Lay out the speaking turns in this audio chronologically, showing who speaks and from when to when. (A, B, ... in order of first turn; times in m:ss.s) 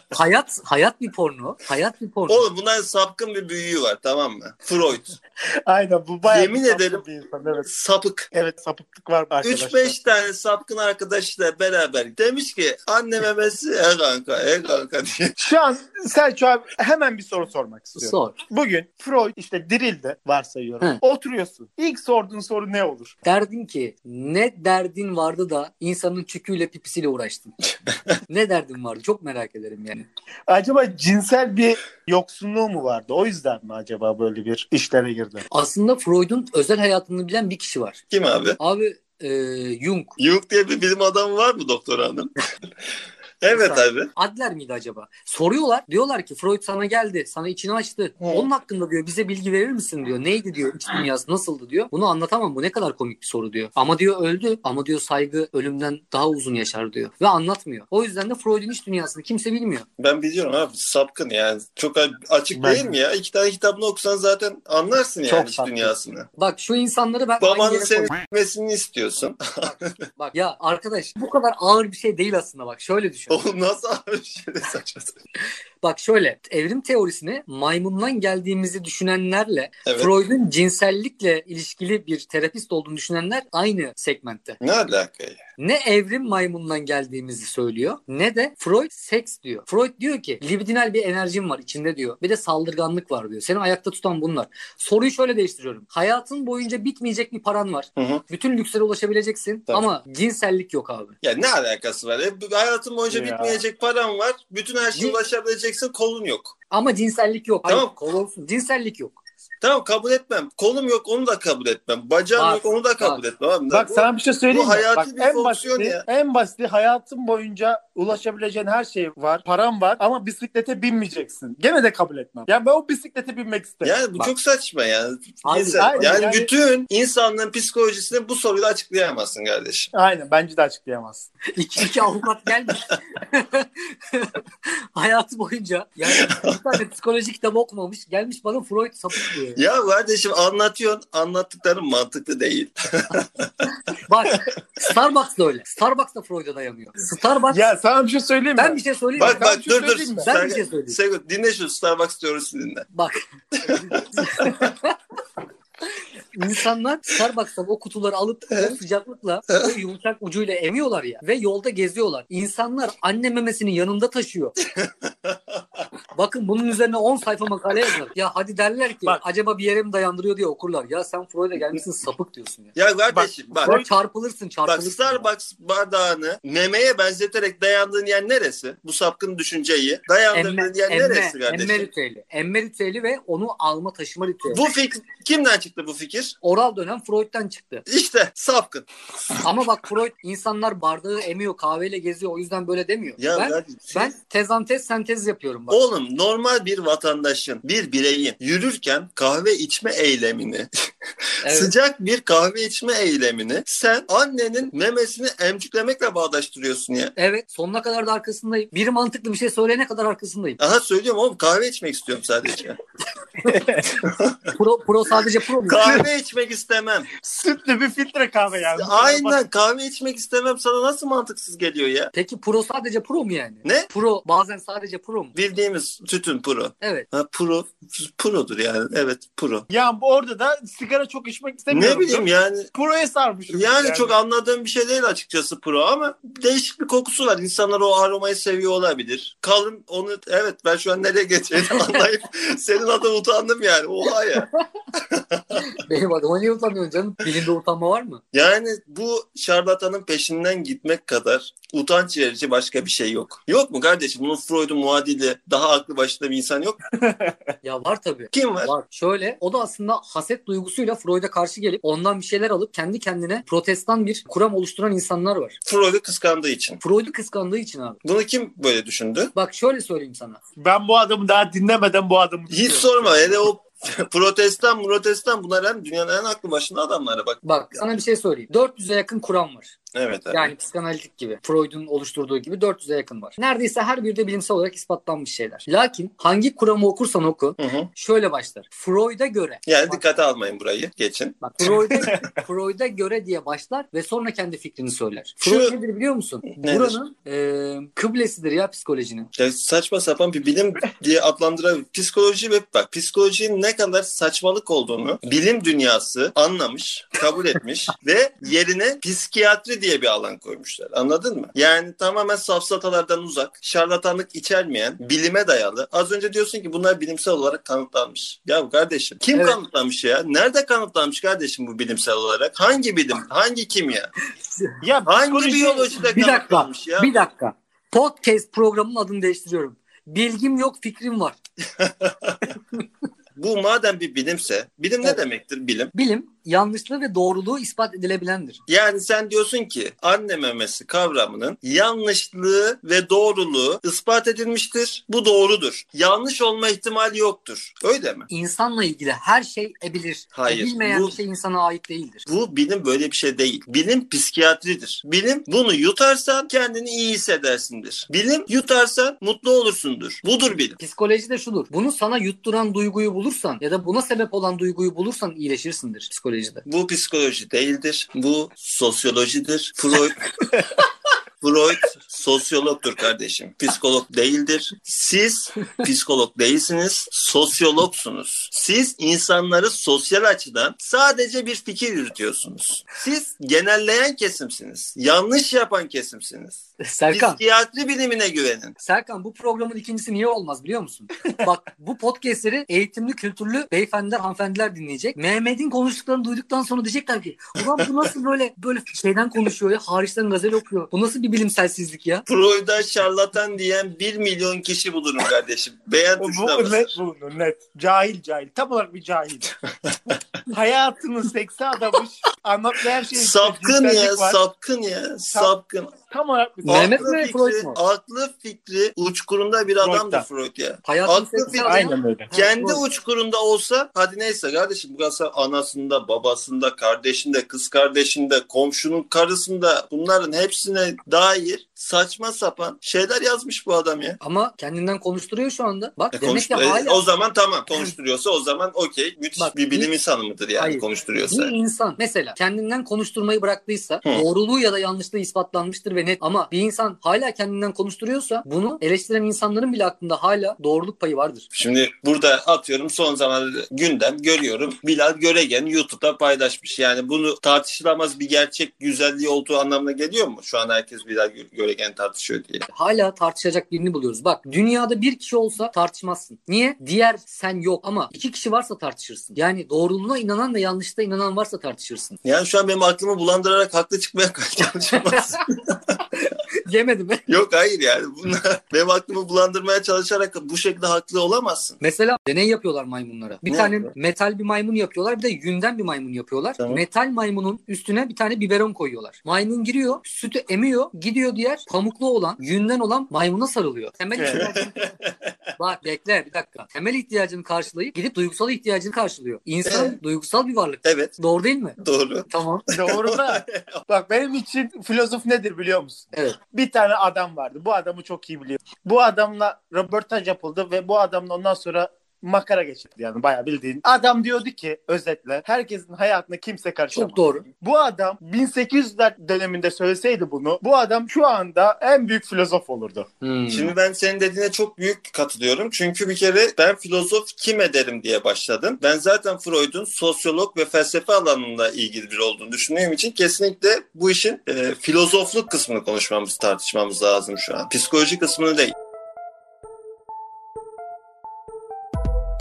0:00.1-0:02.4 A
0:02.3-0:05.2 B
0:05.7-0:07.7 C
0:06.3-0:07.0 B
0:07.7-0:08.3 B
0:08.3-0:10.0 C
0:09.4-0:15.4 B
0:15.4-0:23.1 C
0:18.0-0:18.4 A
0:23.2-0:27.5 A
0:28.3-0:30.1 A
0:30.5-0:35.4 C
0:35.5-0:38.0 A
0:38.1-0:38.6 B
0:38.6-0:40.2 A
0:40.2-0:42.4 B
0:43.4-0:44.1 B
0:43.5-0:59.9 A
0:48.2-0:48.5 B
1:00.0-1:06.3 B
1:02.5-1:03.0 C
1:05.3-1:08.1 A
1:07.4-1:10.0 B
1:09.6-1:13.4 A
1:13.3-1:15.2 B
1:15.8-1:24.6 A
1:19.9-1:20.1 B
1:24.6-1:25.4 B
1:25.6-1:41.2 A
1:38.0-1:38.2 B
1:41.2-1:46.6 B
1:43.1-1:43.6 C
1:46.7-1:49.2 A
1:47.7-1:47.9 B
1:49.6-1:56.0 B
1:52.4-1:53.2 A
1:53.7-2:04.0 C
2:03.8-2:09.9 B
2:05.4-2:06.2 A
2:05.8-2:06.5 C
2:09.9-2:11.3 C
2:11.5-2:19.6 A
2:16.1-2:16.6 B
2:19.6-2:23.5 B
2:24.0-2:27.7 A
2:27.5-2:30.3 C
2:28.6-2:29.4 A
2:29.2-2:32.9 B
2:30.2-2:31.0 A
2:32.9-2:35.0 A
2:33.6-2:34.6 B
2:36.3-2:44.6 A
2:44.7-2:45.9 B
2:46.2-2:52.8 A
2:52.8-2:53.8 B
2:53.1-2:53.9 C
2:53.6-2:55.3 A
2:54.7-3:01.9 B
3:00.3-3:04.6 A
3:04.5-3:06.4 B
3:06.4-3:07.9 A
3:07.9-3:09.4 B
3:09.4-3:15.8 A
3:13.2-3:14.1 B
3:15.7-3:20.7 B
3:21.4-3:21.7 A
3:21.4-3:27.2 B
3:27.2-3:30.6 A
3:30.6-3:32.8 B
3:33.4-3:34.0 C
3:34.0-3:34.5 B
3:34.5-3:36.0 A
3:35.6-3:37.1 B
3:37.2-3:39.4 C
3:38.7-3:42.1 B
3:42.1-3:45.4 A
3:45.4-3:49.7 B
3:46.8-3:47.1 A
3:49.7-3:54.2 C
3:51.7-3:52.7 B
3:53.5-4:05.8 B
4:01.7-4:02.0 A
4:05.6-4:08.2 A
4:08.3-4:16.8 B
4:17.0-4:17.4 C
4:17.6-4:25.6 A
4:18.3-4:18.7 B
4:25.6-4:26.8 B
4:26.8-4:28.0 A
4:28.0-4:29.3 B
4:29.3-4:30.4 A
4:30.6-4:33.5 C
4:32.5-4:37.4 B
4:37.4-4:39.7 A
4:39.9-4:40.5 B
4:40.3-4:50.1 A
4:47.6-4:47.9 B
4:49.7-4:52.0 B
4:51.4-4:59.3 A
4:52.0-4:52.3 C
4:55.4-4:55.8 B
4:56.6-4:57.0 B
4:59.4-5:24.1 B
5:19.3-5:19.6 A
5:24.8-5:26.0 C
5:25.1-5:27.2 B
5:26.0-5:31.4 A
5:31.8-5:32.5 B
5:33.4-5:35.9 B
5:35.9-5:38.6 A
5:38.7-5:48.3 B
5:48.3-5:52.3 A
5:50.4-5:51.2 B
5:52.3-6:00.8 B
6:00.8-6:06.6 A
6:06.7-6:10.5 B
6:11.4-6:28.8 B
6:26.8-6:27.4 A
6:28.8-6:42.3 A
6:42.3-6:46.9 B
6:46.2-6:49.5 C
6:50.5-6:54.4 C
6:53.1-6:56.0 B
6:56.1-6:57.0 C
6:56.6-6:57.8 A
6:56.7-7:14.2 B
6:59.8-7:00.3 C
7:00.8-7:02.8 A
7:01.6-7:02.3 C
7:14.2-7:17.0 A
7:16.2-7:21.5 B
7:19.4-7:19.9 A
7:20.6-7:31.5 A
7:31.5-7:42.7 B
7:42.7-7:52.2 A
7:52.2-7:56.0 B
7:54.9-7:55.4 A
7:56.2-7:57.2 A
7:57.3-8:01.8 B
8:01.8-8:14.7 A
8:03.5-8:03.9 B
8:14.2-8:14.5 C
8:14.2-8:15.3 B
8:15.6-8:21.8 A
8:19.7-8:20.0 B
8:20.8-8:21.2 B
8:21.8-8:23.8 B
8:22.3-8:22.7 A
8:22.7-8:43.1 C
8:36.9-8:37.4 A
8:43.2-8:43.7 A
8:43.5-8:58.7 B